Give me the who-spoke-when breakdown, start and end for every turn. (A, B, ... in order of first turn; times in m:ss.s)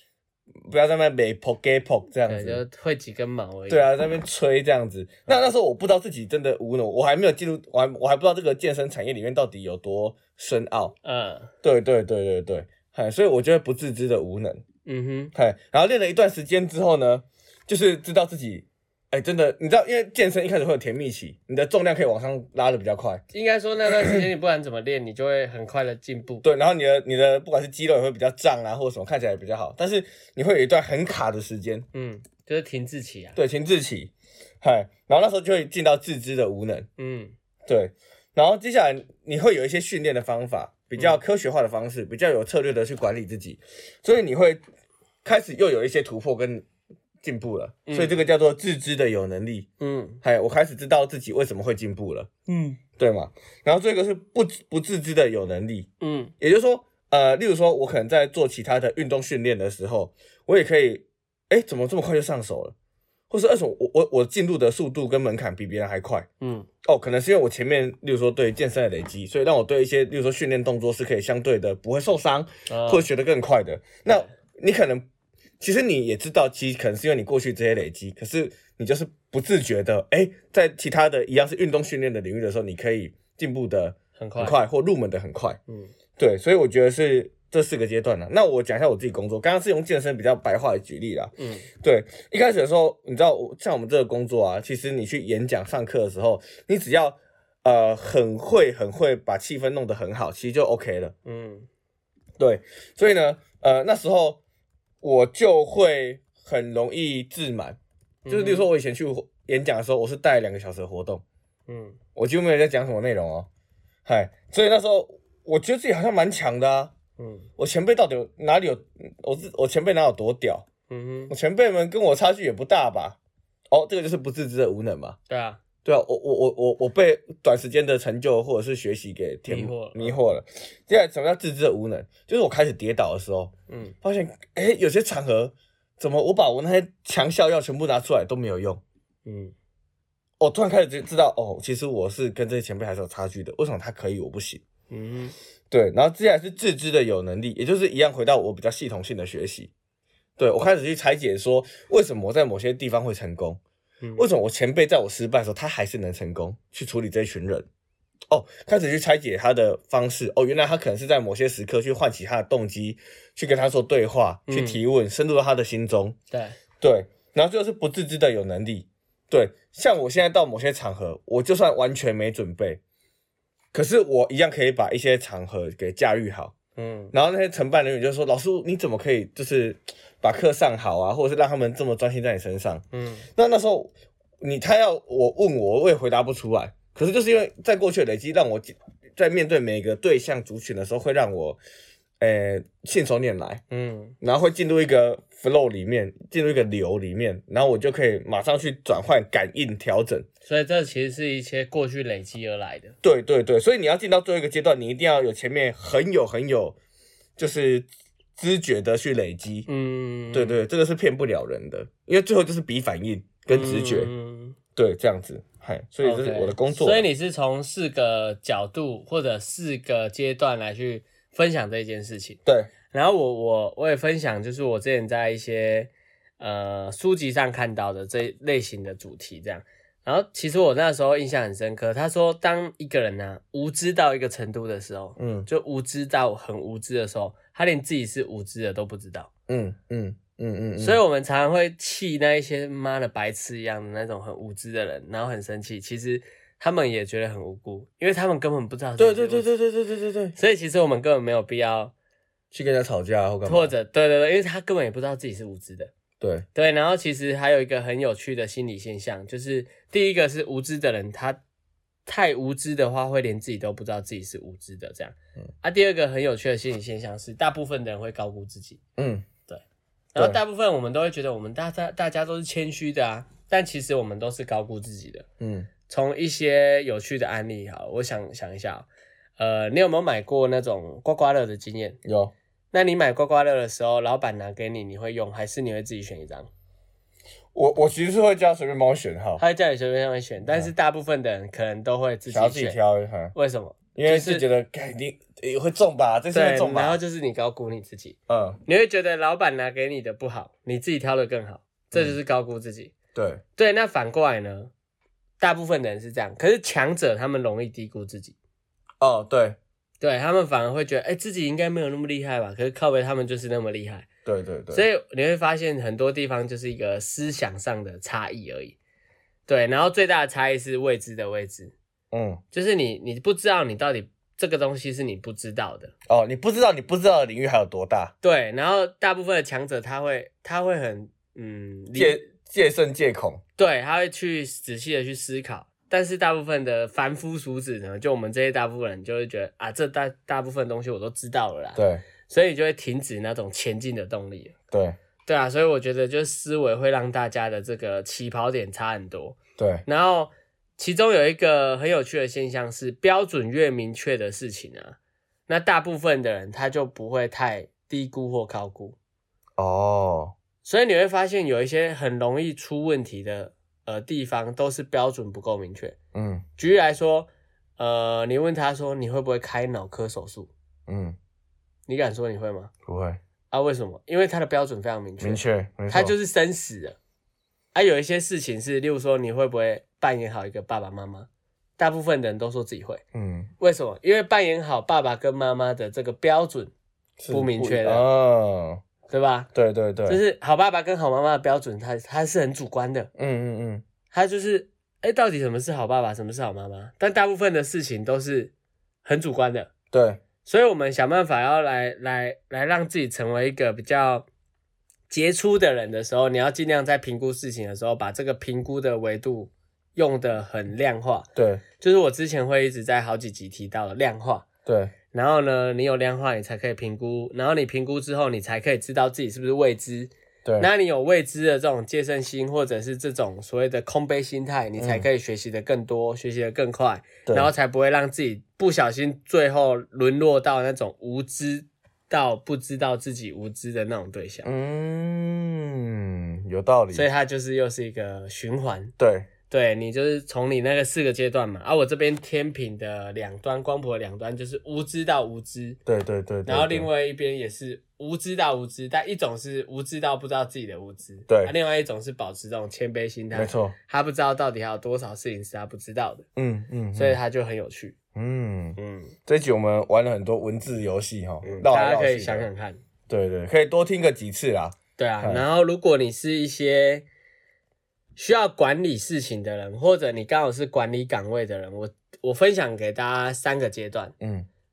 0:00.7-0:02.6 A
0:02.2-0:03.9 B
0:03.7-0:10.9 A
0:11.0-0:11.5 B
0:11.6-0:14.6 A
0:14.9-0:15.3 B
0:15.3-0:23.2 A
0:23.3-0:26.4 B
0:26.4-0:31.9 A
0:31.9-0:33.4 B
0:33.4-0:36.9 A
0:37.0-0:37.3 B
0:37.7-0:44.6 A
0:41.0-0:41.2 B
0:45.2-0:46.6 A
0:47.2-0:49.7 A
0:47.9-0:48.2 B
0:49.8-0:50.2 B
0:50.2-0:52.3 A
0:52.5-0:52.8 B
0:53.0-0:55.9 A
0:56.0-0:56.3 B
0:56.4-1:02.7 A
1:03.3-1:06.3 A
1:06.4-1:06.7 B
1:06.8-1:15.0 A
1:12.7-1:13.0 B
1:15.6-1:25.6 A
1:24.2-1:24.6 B
1:26.2-1:41.1 A
1:31.4-1:31.7 B
1:41.2-1:41.7 B
1:42.4-1:44.4 A
1:45.0-1:51.2 A
1:48.3-1:48.7 B
1:51.7-1:52.0 B
1:52.2-1:53.5 A
1:54.0-1:56.9 A
1:57.2-1:57.4 B
1:57.6-2:00.6 A
2:00.9-2:01.3 B
2:01.3-2:03.2 A
2:03.7-2:05.2 A
2:05.3-2:05.6 B
2:05.8-2:18.8 A
2:09.4-2:10.2 B
2:13.7-2:13.9 B
2:19.2-2:19.5 B
2:20.4-2:24.6 A
2:24.9-2:25.3 B
2:25.7-2:29.7 A
2:30.4-2:33.6 A
2:34.2-2:37.7 A
2:38.3-2:46.2 A
2:44.5-2:44.8 B
2:46.3-2:46.6 B
2:46.8-2:52.8 A
2:53.7-2:56.6 A
2:56.8-2:57.1 B
2:57.1-3:02.8 A
3:02.9-3:03.3 B
3:03.4-3:11.6 A
3:12.2-3:13.6 A
3:13.7-3:14.2 B
3:14.2-3:20.2 A
3:20.4-3:22.9 B
3:23.0-3:26.8 A
3:27.4-3:29.7 A
3:29.7-3:30.6 B
3:30.3-3:34.1 A
3:33.5-3:34.6 B
3:34.8-3:37.1 A
3:36.0-3:42.4 B
3:42.5-3:42.7 A
3:42.9-3:59.3 B
3:55.2-3:55.5 A
3:59.5-4:01.0 A
4:00.8-4:09.5 B
4:09.0-4:10.4 A
4:10.4-4:11.9 B
4:12.5-4:13.7 A
4:13.4-4:15.9 B
4:16.2-4:16.5 A
4:16.6-4:21.4 B
4:22.1-4:28.8 B
4:29.0-4:29.2 A
4:30.1-4:35.2 B
4:35.4-4:35.7 A
4:35.9-4:42.0 B
4:42.0-4:42.3 A
4:42.7-4:46.5 B
4:47.5-4:49.4 A
4:49.4-4:52.8 B
4:52.3-4:53.3 A
4:53.3-4:54.5 B
4:54.0-4:57.0 A
4:56.3-5:02.9 B
4:58.3-4:58.6 A
5:03.1-5:03.4 A
5:03.6-5:04.7 B
5:05.4-5:08.4 B
5:09.0-5:09.6 A
5:10.0-5:14.1 B
5:14.2-5:14.9 A
5:14.7-5:18.8 B
5:19.5-5:21.7 B
5:22.1-5:22.4 A
5:22.5-5:25.9 B
5:26.1-5:28.1 A
5:28.2-5:32.2 B
5:31.9-5:33.4 A
5:33.6-5:44.6 B
5:41.8-5:42.0 A
5:44.7-5:45.0 A
5:45.3-5:55.0 B
5:49.6-5:49.8 A
5:55.5-5:59.0 B
5:59.6-6:00.4 A
6:00.6-6:05.9 B
6:06.1-6:06.4 A
6:06.6-6:10.5 B
6:10.9-6:11.2 A
6:11.9-6:12.7 B
6:12.9-6:13.2 A
6:13.5-6:17.0 B
6:15.2-6:16.2 A
6:17.7-6:23.0 B
6:23.1-6:23.5 A
6:23.6-6:26.7 B
6:27.2-6:28.8 A
6:27.3-6:28.0 B
6:29.1-6:29.5 B
6:29.6-6:30.2 A
6:30.1-6:33.1 B
6:33.2-6:33.8 A
6:34.1-6:38.5 B
6:39.0-6:39.7 B
6:39.9-6:40.2 A
6:40.4-6:44.2 B
6:45.1-6:51.3 B
6:51.4-6:51.6 A
6:51.8-6:54.5 B
6:54.6-6:54.9 A
6:55.1-7:14.5 B
7:04.8-7:05.1 A
7:07.2-7:07.5 A
7:14.4-7:17.1 A
7:16.9-7:18.9 B
7:19.0-7:19.3 A
7:19.5-7:25.8 B
7:25.9-7:26.9 A
7:26.5-7:36.2 B
7:31.3-7:31.5 A
7:33.3-7:33.8 A
7:36.4-7:37.2 A
7:37.0-7:38.0 B
7:38.1-7:42.5 A
7:38.8-7:39.1 B
7:41.4-7:42.8 B
7:43.1-7:45.4 A
7:45.0-7:47.1 B
7:48.2-7:54.1 B
7:54.2-7:54.5 A